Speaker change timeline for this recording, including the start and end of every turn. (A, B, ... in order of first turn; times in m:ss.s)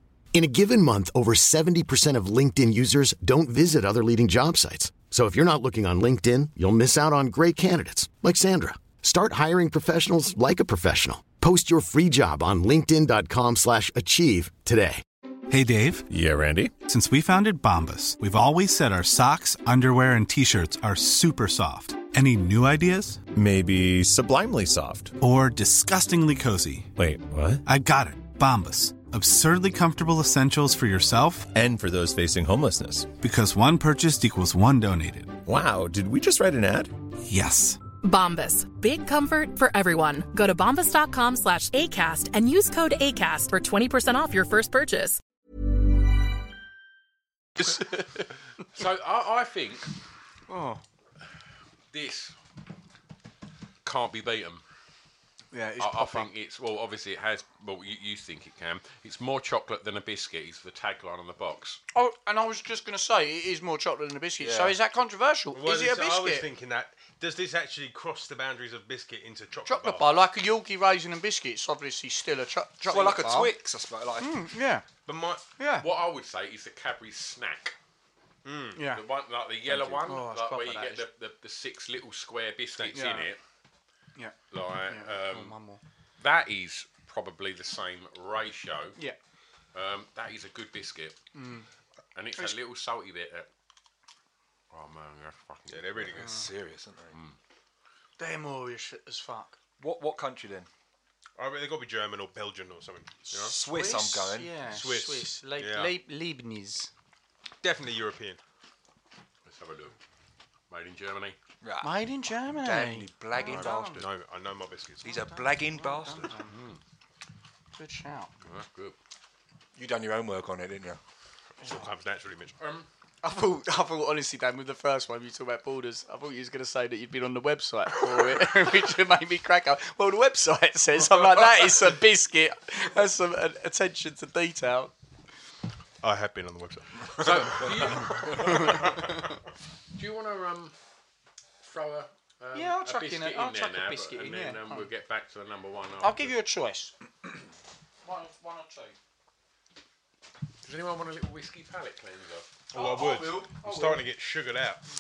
0:00.3-0:15.0 A
0:15.5-0:16.0 B
0:16.1-0:16.7 C
0:16.8-0:23.2 B
0:23.3-0:25.1 C
0:25.2-0:26.9 B
0:27.0-0:27.6 C
0:27.6-0:31.5 B
0:31.5-0:33.1 C
0:33.2-0:35.4 B
0:35.4-0:36.9 C
0:37.3-0:37.8 B
0:38.0-0:45.2 D
0:47.6-0:48.0 E
0:48.7-0:49.9 F
0:50.5-0:50.8 E
0:51.9-0:52.3 F
0:53.8-0:54.6 F
0:55.5-0:56.3 E
0:55.8-1:01.8 F
1:01.9-1:06.5 E
1:04.4-1:04.8 G
1:05.5-1:10.2 H
1:09.6-1:13.5 E
1:12.8-1:14.4 G
1:14.2-1:14.8 E
1:15.0-1:15.4 H
1:15.6-1:15.8 E
1:15.8-1:17.8 F
1:18.4-1:18.8 H
1:18.7-1:19.0 E
1:18.9-1:23.4 F
1:19.7-1:20.0 G
1:20.0-1:21.0 E
1:22.8-1:23.1 H
1:22.9-1:23.3 E
1:24.5-1:25.5 F
1:24.9-1:25.8 E
1:26.2-1:29.0 F
1:29.7-1:31.2 F
1:31.3-1:31.6 E
1:32.1-1:33.5 F
1:34.7-1:36.1 F
1:35.7-1:36.4 H
1:36.1-1:37.2 G
1:36.2-1:36.5 E
1:38.2-1:39.6 E
1:39.8-1:40.7 G
1:41.4-1:43.5 H
1:43.3-1:44.6 G
1:43.6-1:46.9 E
1:44.6-1:45.9 H
1:47.6-1:48.4 H
1:49.4-1:49.9 F
1:50.7-1:51.4 F
1:51.6-1:54.0 G
1:51.8-1:54.0 E
1:53.4-1:55.1 H
1:55.0-1:56.4 G
1:55.1-1:56.6 E
1:56.5-1:56.8 F
1:57.8-1:58.3 E
1:58.4-1:59.0 F
1:59.8-2:01.0 G
2:01.6-2:02.6 H
2:02.6-2:02.9 F
2:03.2-2:14.9 E
2:16.0-2:19.3 H
2:17.2-2:19.2 F
2:18.3-2:18.9 E
2:19.9-2:20.7 F
2:21.6-2:26.3 F
2:22.5-2:24.9 E
2:26.0-2:27.0 E
2:28.0-2:28.9 E
2:30.6-2:32.6 F
2:32.7-2:34.8 H
2:32.7-2:34.0 E